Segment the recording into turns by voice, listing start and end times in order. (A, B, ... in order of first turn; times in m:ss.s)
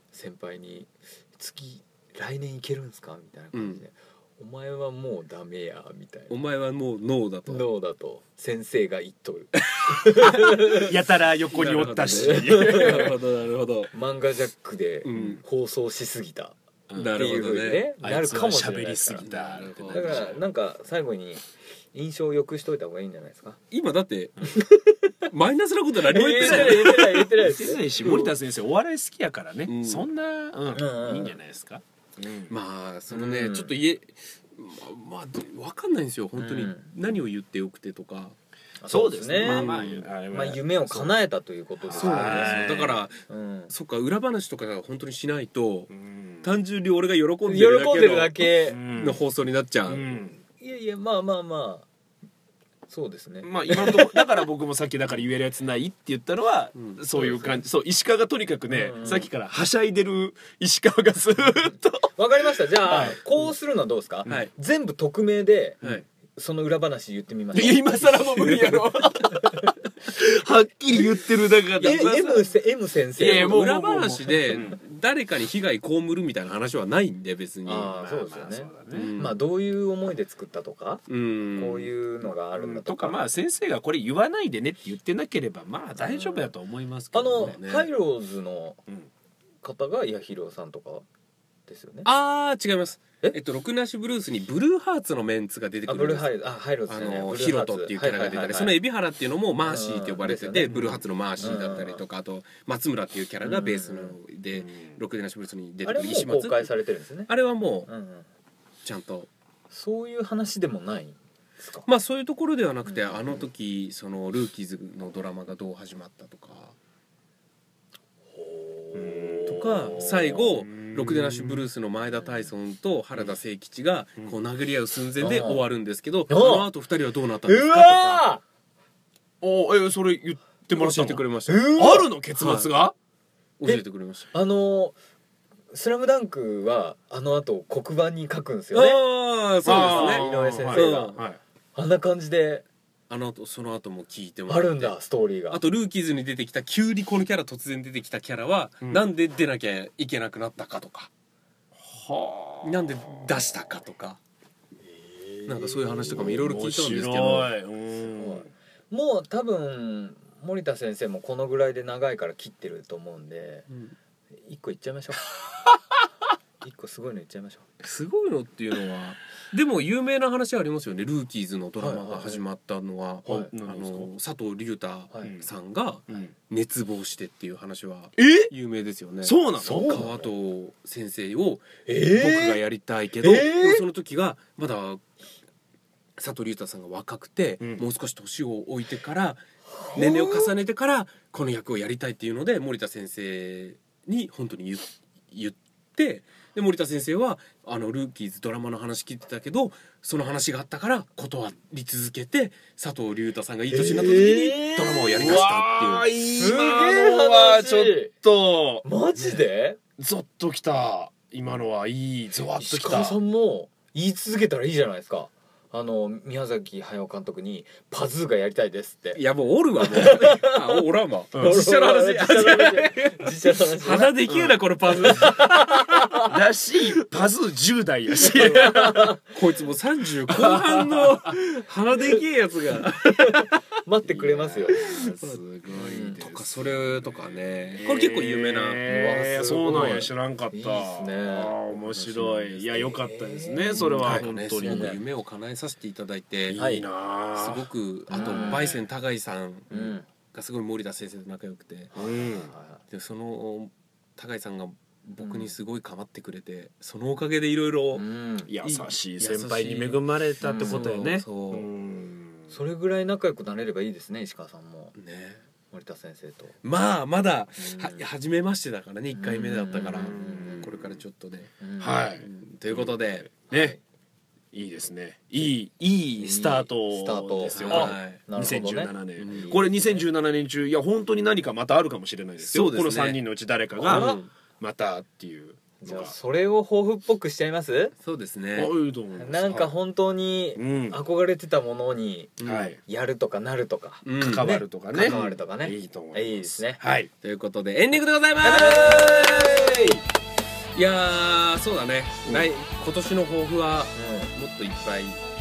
0:00.1-0:06.4 A
0:03.5-0:03.8 B
0:06.3-0:07.7 B
0:07.5-0:10.9 A
0:09.9-0:10.3 B
0:10.4-0:13.2 C
0:11.5-0:13.9 B
0:12.1-0:13.2 A
0:13.9-0:16.6 A
0:15.0-0:15.4 B
0:15.1-0:15.4 C
0:16.9-0:17.4 C
0:17.0-0:17.9 B
0:17.1-0:19.3 A
0:18.0-0:20.4 C
0:19.2-0:20.4 B
0:19.9-0:23.6 A
0:23.7-0:24.5 B
0:24.5-0:25.1 A
0:25.3-0:27.4 B
0:26.1-0:27.8 A
0:26.4-0:32.5 C
0:28.0-0:28.3 B
0:29.7-0:30.1 B
0:30.7-0:31.4 A
0:32.5-0:38.4 B
0:33.1-0:33.7 A
0:36.4-0:36.9 A
0:38.8-0:42.6 A
0:38.9-0:41.2 C
0:39.4-0:40.0 B
0:41.9-0:43.0 C
0:41.9-0:45.9 B
0:43.3-0:43.7 A
0:45.9-0:46.5 C
0:46.4-0:50.0 B
0:47.5-0:48.8 A
0:48.7-0:49.2 C
0:49.9-0:50.4 C
0:50.6-0:51.9 A
0:52.9-0:54.4 A
0:53.4-1:02.1 C
0:56.8-0:57.0 B
0:57.2-0:57.6 A
0:58.7-0:59.3 A
1:01.7-1:08.5 A
1:02.7-1:03.2 C
1:07.5-1:09.3 C
1:07.6-1:09.6 B
1:09.3-1:09.7 A
1:10.1-1:12.5 C
1:11.8-1:12.3 B
1:11.8-1:13.6 A
1:13.2-1:14.8 C
1:13.2-1:18.0 B
1:17.6-1:21.0 A
1:18.0-1:19.1 C
1:18.9-1:19.4 B
1:21.1-1:21.9 B
1:21.6-1:23.2 A
1:22.6-1:27.6 C
1:26.0-1:26.5 A
1:27.1-1:28.8 A
1:27.4-1:27.9 B
1:29.6-1:31.0 A
1:31.7-1:32.1 A
1:32.0-1:36.3 B
1:35.9-1:38.8 A
1:36.9-1:46.7 B
1:39.6-1:42.0 A
1:40.7-1:41.5 C
1:43.4-1:44.2 A
1:44.5-1:45.0 C
1:45.8-1:47.3 A
1:47.3-1:47.9 B
1:47.9-1:48.3 A
1:48.8-1:49.3 B
1:49.7-1:51.9 A
1:51.9-1:56.8 B
1:52.9-1:53.4 A
1:58.3-2:00.4 A
1:58.9-2:01.7 C
1:59.5-2:08.3 B
2:05.2-2:05.6 A
2:06.3-2:06.7 A
2:07.5-2:08.4 A
2:09.4-2:13.0 C
2:10.7-2:11.7 B
2:11.5-2:12.1 A
2:12.4-2:12.7 B
2:13.6-2:14.3 B
2:13.6-2:15.0 A
2:15.7-2:19.0 A
2:18.7-2:21.2 B
2:19.6-2:21.2 A
2:19.6-2:21.4 C
2:21.8-2:22.6 A
2:23.1-2:25.0 B
2:24.5-2:25.6 A
2:25.5-2:31.1 B
2:28.8-2:29.1 C
2:31.8-2:33.2 C
2:32.6-2:34.2 B
2:35.0-2:36.3 A
2:35.5-2:37.5 B
2:36.1-2:38.5 C
2:38.1-2:43.7 A
2:43.7-2:44.0 B
2:44.4-2:45.3 A
2:46.6-2:47.6 A
2:47.8-3:05.0 B
2:51.8-2:52.4 A
2:53.3-2:54.1 C
2:55.1-2:55.4 A
2:58.2-2:58.5 C
2:59.2-3:00.3 C
2:59.6-3:00.1 A
3:01.9-3:02.6 A
3:03.2-3:03.8 A
3:06.2-3:09.4 B
3:07.6-3:07.9 C
3:09.8-3:10.5 A
3:09.9-3:26.1 B
3:23.7-3:25.2 A
3:24.8-3:28.8 C
3:26.3-3:28.1 A
3:28.8-3:29.8 A
3:30.0-3:33.2 C
3:32.6-3:39.2 A
3:39.2-3:46.3 B
3:39.8-3:40.8 A
3:41.3-3:41.6 C
3:41.4-3:44.2 A
3:44.3-3:44.6 C
3:44.9-3:46.3 A
3:46.2-3:49.1 C
3:48.2-3:49.2 A
3:48.4-3:48.7 B
3:49.3-3:53.5 B
3:50.3-3:51.3 C
3:53.0-3:54.8 A
3:54.0-4:05.0 C
3:54.8-3:55.4 B
3:55.7-3:56.2 A
3:56.2-3:58.9 B
3:58.9-4:01.6 A
3:59.4-4:00.1 B
4:01.9-4:02.6 B
4:02.6-4:05.0 A
4:03.9-4:06.6 B
4:06.5-4:08.8 C
4:06.6-4:06.9 A
4:07.3-4:11.9 B
4:08.1-4:08.7 A
4:09.7-4:10.1 A
4:11.9-4:12.8 A
4:12.0-4:12.5 C
4:12.9-4:18.0 B
4:15.2-4:15.5 A
4:17.9-4:18.5 A
4:18.4-4:22.5 C
4:18.6-4:20.0 B
4:20.4-4:21.0 A
4:20.5-4:21.7 B
4:22.5-4:25.0 A
4:25.0-4:25.4 B
4:25.7-4:26.6 A
4:26.6-4:31.5 B
4:27.6-4:28.0 A
4:29.1-4:30.7 A
4:30.0-4:30.9 C
4:31.6-4:32.0 A
4:31.8-4:33.8 C
4:32.2-4:33.3 B
4:33.5-4:33.8 A
4:34.5-4:46.1 C
4:36.2-4:40.0 A
4:37.5-4:38.2 B
4:39.2-4:39.6 B
4:42.4-4:43.2 B
4:43.8-4:44.3 B
4:43.8-4:44.2 A
4:45.8-4:47.9 A
4:48.0-4:48.7 B
4:48.5-4:49.7 C
4:49.1-4:56.8 A
4:50.6-4:51.0 C
4:52.4-4:52.7 B
4:52.4-4:52.8 C
4:54.0-4:55.3 B
4:54.2-4:57.1 C
4:57.2-4:59.9 B
4:58.4-5:00.0 C
5:00.8-5:05.2 B
5:04.0-5:04.3 A